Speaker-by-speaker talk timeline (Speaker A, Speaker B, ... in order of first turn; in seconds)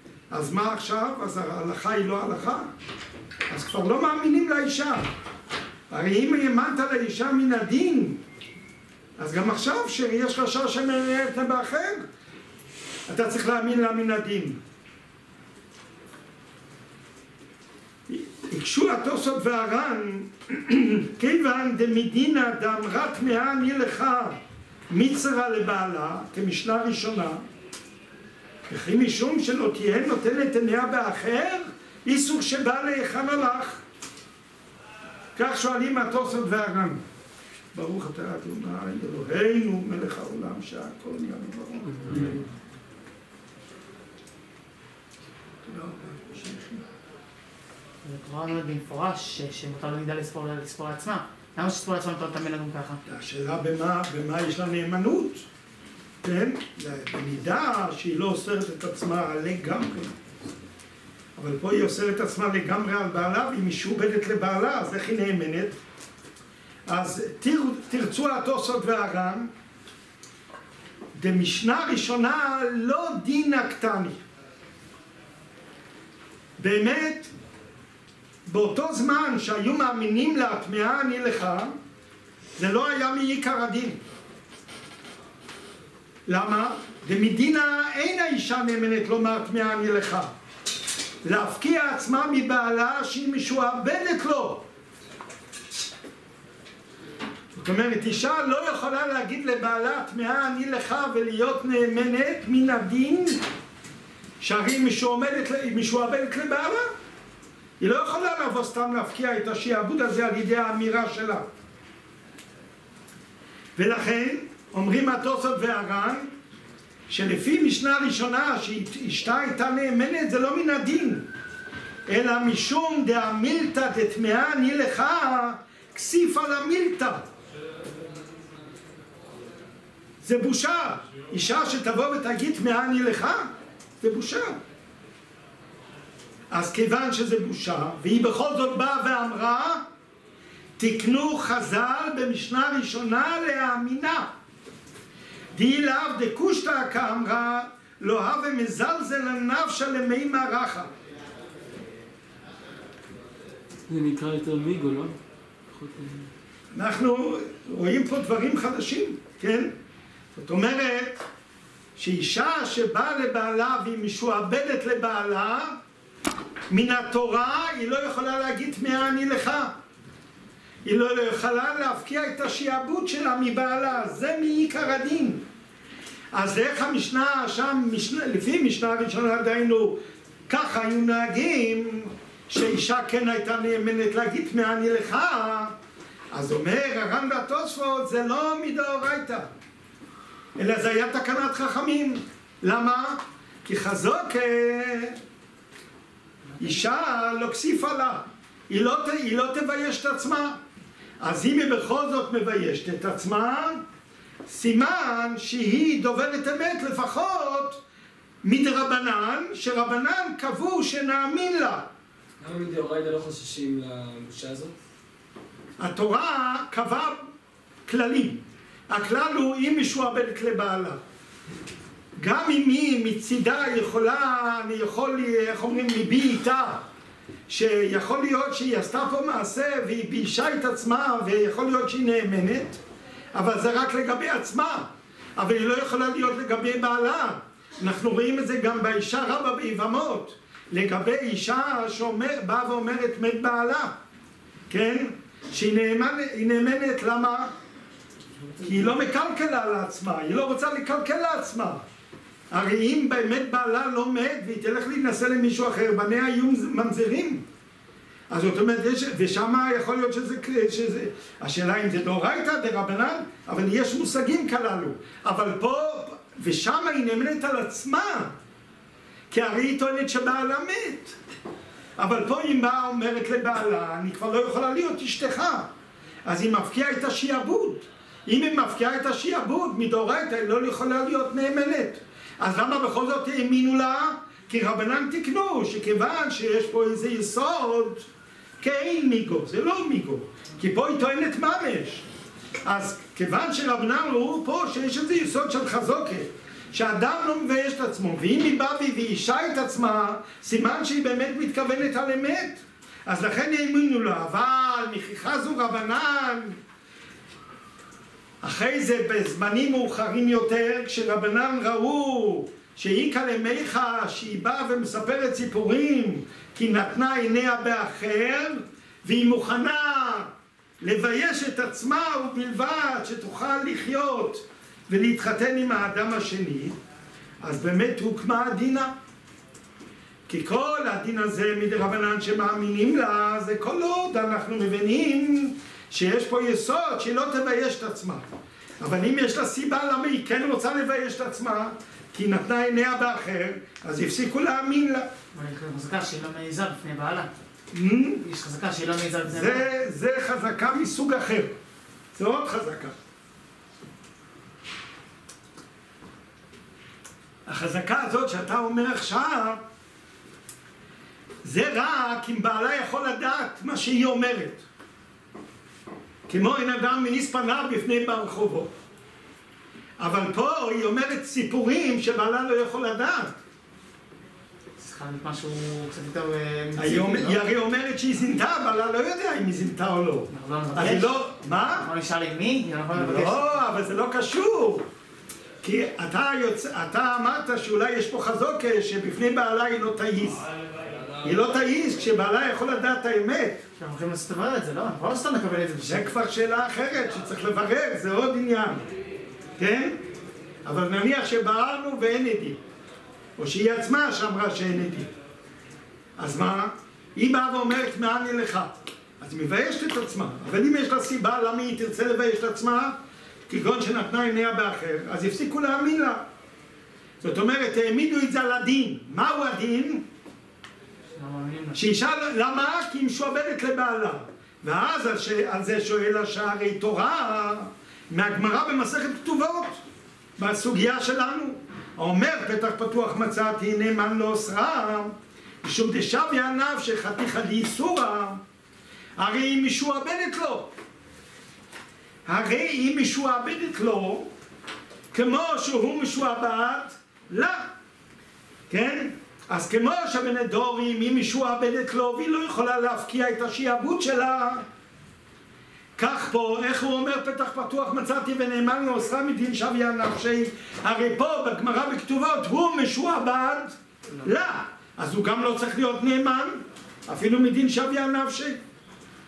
Speaker A: 0.3-2.7, 3.5-5.1, 5.9-8.2, 9.2-12.1, 13.1-14.6, 18.1-27.4, 28.7-33.8, 35.4-37.0, 37.7-42.4, 45.6-46.8, 53.1-55.5, 56.2-60.1, 61.4-65.8, 66.9-69.5, 71.2-74.2, 76.6-77.3, 78.5-81.7, 82.6-84.0, 86.3-90.3, 91.2-94.7, 97.5-103.4, 104.4-106.9, 107.8-111.5, 113.8-116.3, 117.1-121.3, 122.1-127.3, 130.2-133.5, 134.0-134.6, 136.5-139.8, 140.8-144.3, 145.5-150.9, 156.7-159.8, 160.3-161.2, 162.0-165.8, 166.7-169.7, 170.8-175.4, 176.3-185.7, 186.3-189.5, 190.6-195.2, 196.6-200.6, 201.2-203.8, 204.5-207.8, 208.4-211.9, 215.8-217.2, 217.9-221.0, 222.2-226.8, 227.5-232.8, 233.3-243.9, 244.7-247.5, 248.6-251.8, 252.5-257.4, 258.3-268.4, 269.3-271.2, 272.0-275.7, 276.2-288.1, 288.6-292.1, 292.6-306.6, 308.4-320.3, 320.8-326.8, 327.4-328.9, 330.3-338.3, 338.8-345.1, 347.7-348.2, 349.3-351.5, 352.1-352.9, 357.5-359.6, 361.4-364.6, 366.3-368.7, 370.0-373.4, 376.8-381.9, 382.9-384.9, 385.6-390.4, 391.2-393.6, 395.9-398.9, 399.6-400.0, 400.6-402.6, 403.4-405.1, 406.2-413.0, 413.5-416.2, 417.2-420.0, 421.8-429.8, 430.4-438.4, 439.2-440.7, 442.3-444.3, 445.1-447.7, 448.7-454.6, 456.0-468.6
Speaker B: 48.0-53.0, 345.3-347.3, 348.2-349.7, 374.8-377.4, 380.3-381.2, 381.8-383.7, 393.8-396.1, 421.1-421.9
Speaker C: 153.9-155.2, 155.7-156.3, 212.4-214.7